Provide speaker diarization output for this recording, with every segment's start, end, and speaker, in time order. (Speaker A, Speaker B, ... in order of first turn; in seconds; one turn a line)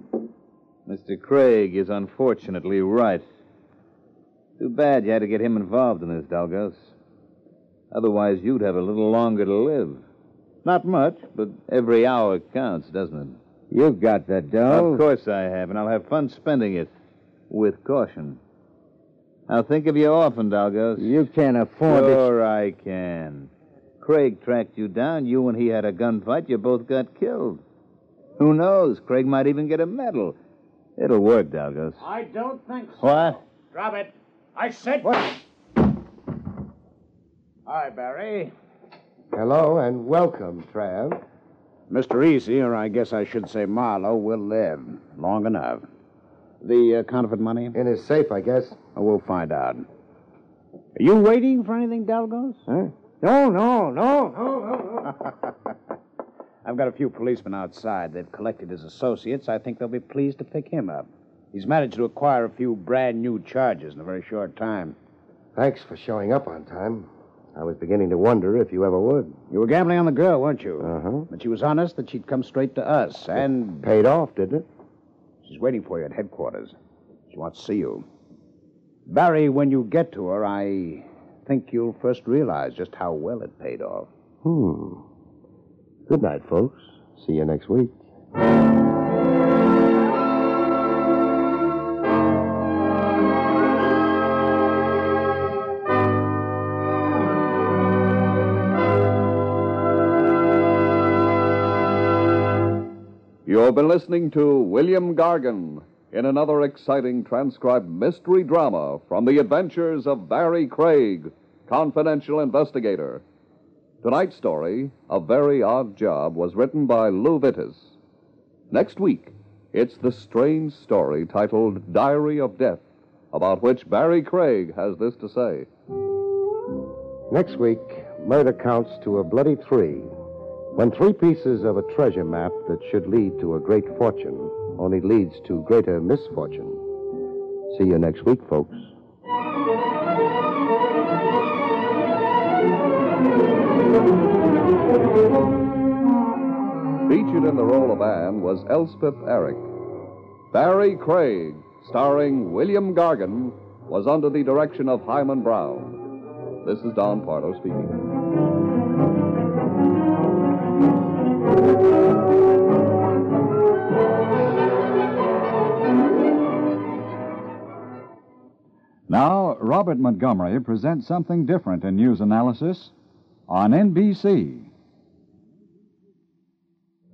Speaker A: 0.9-3.2
Speaker A: 4.6-6.9
Speaker A: 7.9-10.0
Speaker A: 10.6-13.4
Speaker B: 13.7-15.0
Speaker A: 14.7-16.9
Speaker A: 17.5-18.4
Speaker A: 19.5-21.1
Speaker B: 21.0-22.3
Speaker A: 21.9-23.5
Speaker A: 24.0-27.6
Speaker A: 28.4-30.4
Speaker A: 31.0-32.0
Speaker C: 32.0-35.4
Speaker A: 33.0-33.4
Speaker C: 37.7-38.5
Speaker D: 39.3-41.2
Speaker C: 41.9-45.9
Speaker C: 46.6-47.8
Speaker D: 47.7-48.8
Speaker C: 49.0-49.9
Speaker C: 51.0-52.6
Speaker B: 52.7-55.1
Speaker C: 56.6-65.0
Speaker D: 65.5-69.3
Speaker C: 69.5-73.8
Speaker D: 70.8-71.3
Speaker D: 73.8-74.7
Speaker C: 75.4-76.7
Speaker C: 77.3-78.0
Speaker C: 79.1-84.1
Speaker D: 84.4-85.0
Speaker D: 86.1-88.0
Speaker E: 103.5-113.2
Speaker E: 114.0-117.9
Speaker E: 118.7-125.7
Speaker D: 127.3-130.1
Speaker D: 130.7-136.8
Speaker D: 137.7-138.9
Speaker E: 147.1-149.7
Speaker E: 150.5-156.0
Speaker E: 156.6-157.9
Speaker F: 169.1-172.9
Speaker F: 173.5-174.7